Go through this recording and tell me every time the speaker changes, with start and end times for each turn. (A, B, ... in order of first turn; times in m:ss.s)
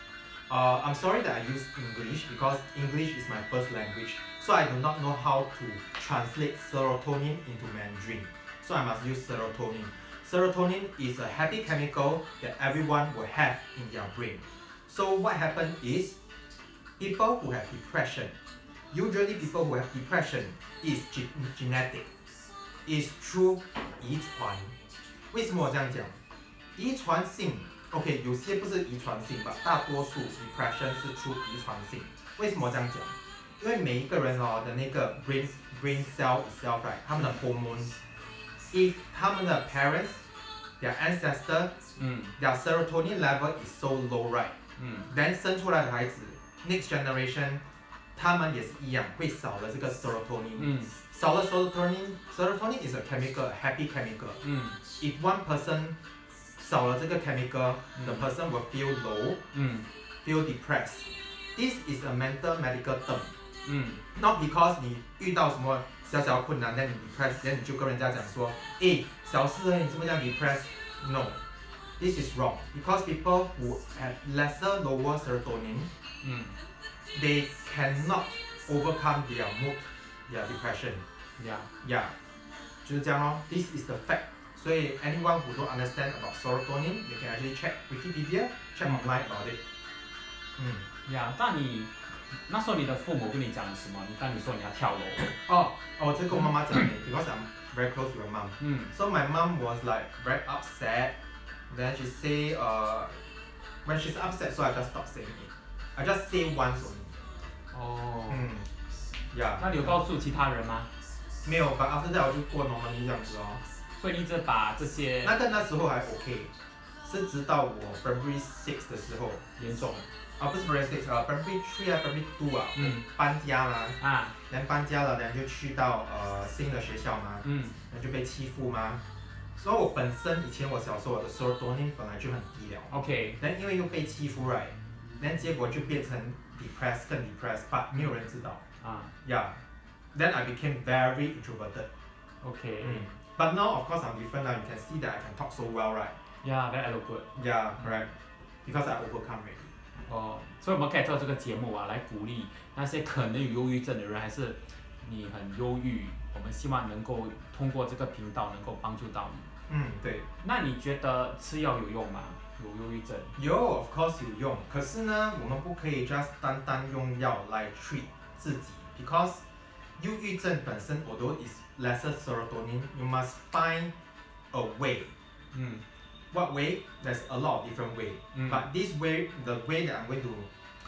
0:00.5-0:16.2 A
0:17.0-0:18.4 A
0:18.9-0:22.1 A
0:22.9-0:24.7 A
0:25.3-0:26.2 A
0:26.8-0:38.0 A
0:38.7-0:40.2 A
0:40.8-0:41.8 A
0:42.0-0:42.4 B
0:42.4-0:44.6 A
0:44.8-0:45.1 B
0:45.1-0:47.6 A
0:48.2-0:54.4 A
0:50.6-0:51.0 B
0:54.4-0:54.8 B
0:55.0-0:56.0 A
0:56.6-0:59.4 A
0:58.0-0:58.3 B
0:59.5-0:59.9 B
1:00.2-1:03.3 A
1:03.6-1:04.0 B
1:04.2-1:11.4 A
1:12.0-1:15.9 A
1:16.2-1:16.6 B
1:17.1-1:21.1 A
1:21.4-1:21.7 B
1:21.8-1:22.2 A
1:22.8-1:29.6 A
1:30.6-1:30.9 A
1:31.0-1:35.4 B
1:35.3-1:41.2 A
1:38.6-1:38.9 B
1:41.7-1:43.2 A
1:43.8-1:47.1 A
1:47.7-1:48.4 B
1:48.3-1:48.7 A
1:49.3-1:50.0 A
1:49.6-1:50.9 B
1:51.4-1:53.6 A
1:54.0-1:55.4 B
1:55.2-1:56.5 A
1:57.0-1:59.4 A
1:59.6-2:00.1 B
2:00.4-2:04.0 A
2:02.8-2:03.0 B
2:04.0-2:04.4 B
2:04.5-2:09.0 A
2:07.4-2:07.8 B
2:09.6-2:18.6 A
2:12.9-2:13.4 B
2:18.8-2:19.1 B
2:19.2-2:19.6 A
2:20.1-2:21.9 A
2:22.4-2:23.1 B
2:22.8-2:26.2 A
2:26.4-2:28.0 B
2:27.4-2:28.1 A
2:28.6-2:29.7 A
2:30.1-2:39.5 B
2:39.7-2:40.3 A
2:40.4-2:43.4 B
2:43.4-2:49.4 A
2:50.0-2:53.9 A
2:54.5-2:55.1 A
2:55.5-2:55.8 B
2:56.3-3:00.5 A
2:58.3-2:58.6 B